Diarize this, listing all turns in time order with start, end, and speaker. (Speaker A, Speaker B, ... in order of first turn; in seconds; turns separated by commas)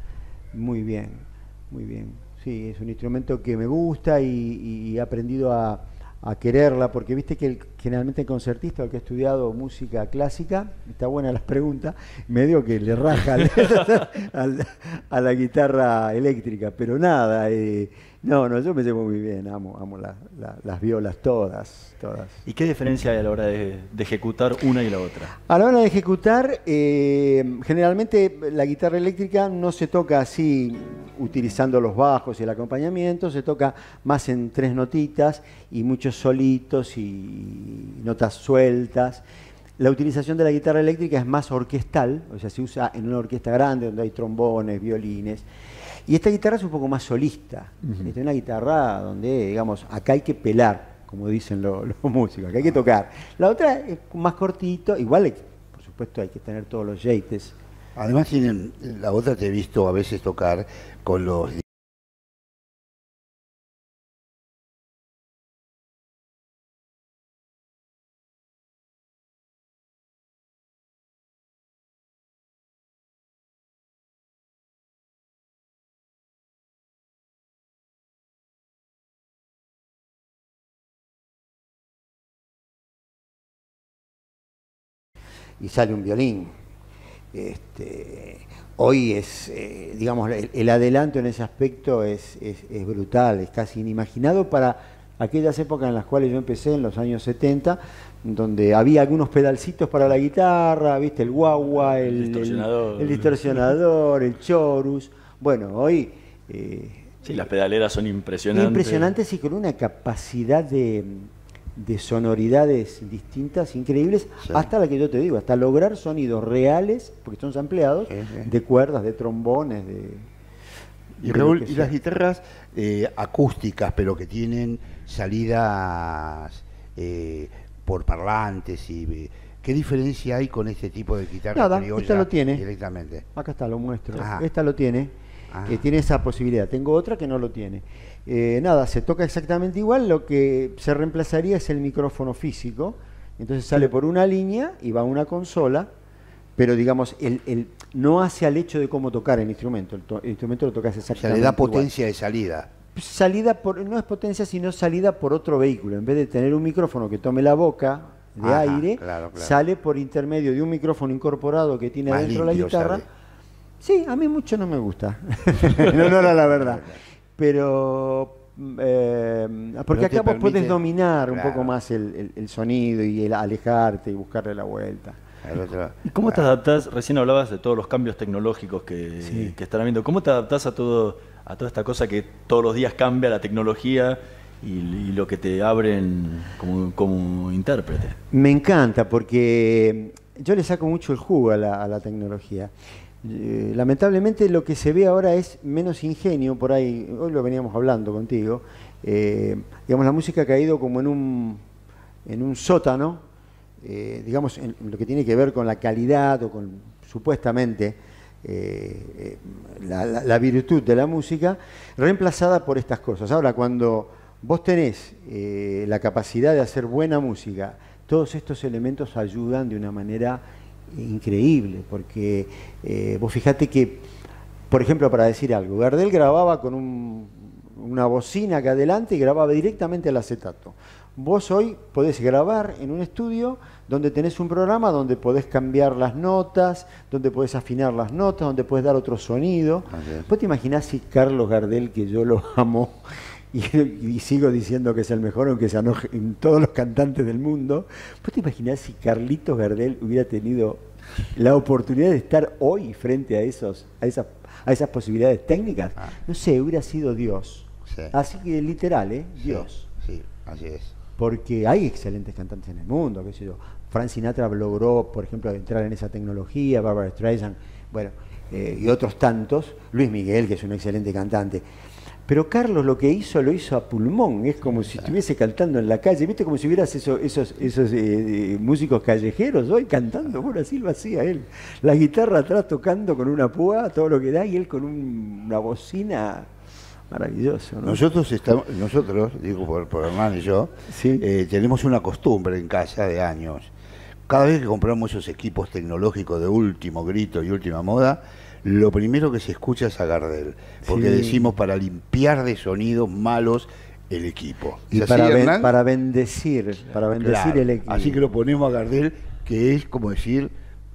Speaker A: 0.5-22.4, Speaker B: 22.4-25.3, Speaker A: 25.5-39.2, Speaker A: 39.8-45.5, Speaker A: 46.1-57.5, Speaker B: 47.8-48.1, Speaker C: 58.0-61.6, Speaker A: 85.6-86.5, Speaker A: 87.3-107.2, Speaker B: 102.1-103.3, Speaker B: 107.2-109.1, Speaker A: 108.5-120.3, Speaker C: 118.1-118.5, Speaker A: 121.2-121.9, Speaker C: 121.2-133.2, Speaker A: 131.5-132.6, Speaker A: 133.3-135.1, Speaker C: 134.1-134.5, Speaker C: 135.5-135.8, Speaker A: 135.7-145.9, Speaker A: 146.6-151.9, Speaker C: 151.1-152.7, Speaker A: 152.9-163.0, Speaker C: 158.4-159.6, Speaker C: 162.1-163.0, Speaker A: 163.8-175.2, Speaker C: 166.5-167.0, Speaker C: 169.9-171.8, Speaker C: 175.4-176.5, Speaker B: 176.1-188.2, Speaker A: 179.2-179.5, Speaker A: 188.3-192.7, Speaker A: 193.2-201.6, Speaker A: 202.2-203.2, Speaker A: 203.8-224.0, Speaker A: 224.7-250.8, Speaker C: 239.9-240.3, Speaker A: 251.3-259.9, Speaker C: 257.9-258.1, Speaker C: 259.4-260.9, Speaker A: 261.2-271.6, Speaker A: 272.3-286.5, Speaker A: 287.1-288.0, Speaker C: 287.8-293.7, Speaker A: 290.9-291.2, Speaker C: 294.3-305.7, Speaker A: 300.9-301.5, Speaker A: 304.9-308.2, Speaker C: 307.1-310.5